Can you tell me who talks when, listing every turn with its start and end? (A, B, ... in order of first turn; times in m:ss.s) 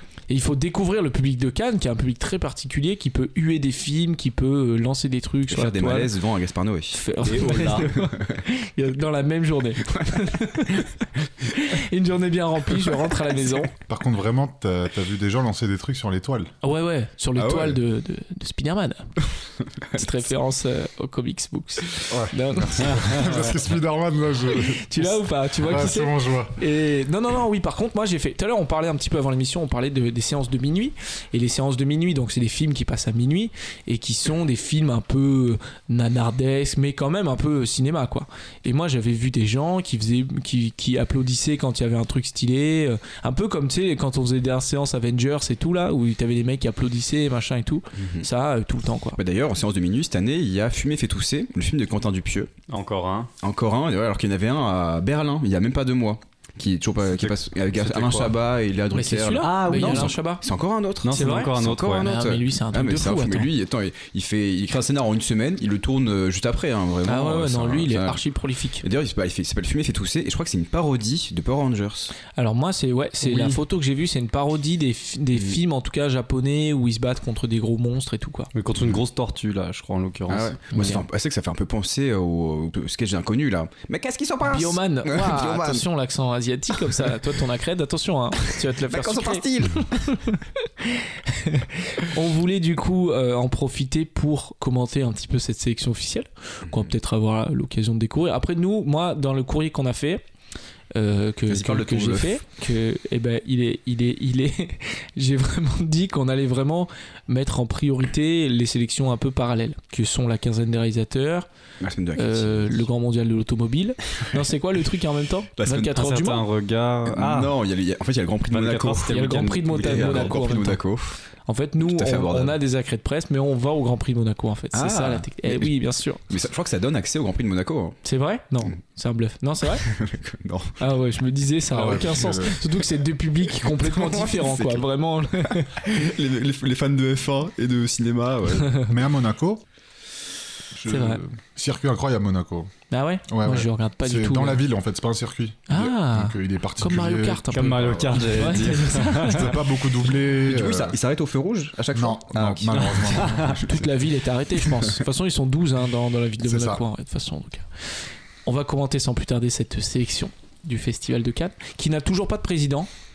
0:00.3-0:06.1 A
0:05.5-0:08.3 B
0:06.9-0:13.7 A
0:07.2-0:07.9 C
0:09.9-0:10.2 B
0:13.7-0:16.5 D
0:16.6-0:19.1 A
0:17.3-0:17.8 B
0:19.9-0:23.2 A
0:22.1-0:26.5 D
0:24.5-0:49.2 A
0:48.0-0:48.3 B
0:49.2-0:52.5 B
0:52.7-0:53.3 C
0:53.4-1:08.2 B
0:57.2-0:58.3 C
0:58.9-1:00.4 A
0:59.4-1:00.1 C
1:01.0-1:02.0 C
1:01.1-1:03.5 A
1:07.0-1:08.8 A
1:08.8-1:12.1 B
1:12.4-1:18.5 A
1:13.2-1:13.6 C
1:18.5-1:21.0 C
1:20.3-1:25.8 B
1:24.4-1:40.2 A
1:28.8-1:30.0 B
1:36.7-1:36.9 B
1:40.9-1:51.5 A
1:41.5-1:42.4 B
1:51.8-1:52.9 B
1:52.2-1:56.4 A
1:55.6-1:56.0 B
1:55.9-1:57.6 C
1:57.0-2:01.2 B
1:58.5-2:00.4 C
1:59.1-2:00.8 A
2:01.4-2:06.2 A
2:01.8-2:02.6 B
2:04.7-2:05.7 B
2:06.3-2:08.0 B
2:08.0-2:09.9 A
2:09.8-2:10.8 B
2:10.8-2:15.9 A
2:11.7-2:12.6 D
2:13.6-2:14.9 B
2:15.4-2:18.7 B
2:18.9-2:19.6 D
2:20.7-2:22.7 D
2:20.9-2:21.2 A
2:22.9-2:24.6 A
2:23.3-2:31.0 D
2:25.7-2:29.7 A
2:27.5-2:29.6 C
2:30.4-2:33.6 B
2:31.9-2:33.6 D
2:33.5-2:37.6 A
2:36.4-2:36.8 D
2:38.4-2:42.9 A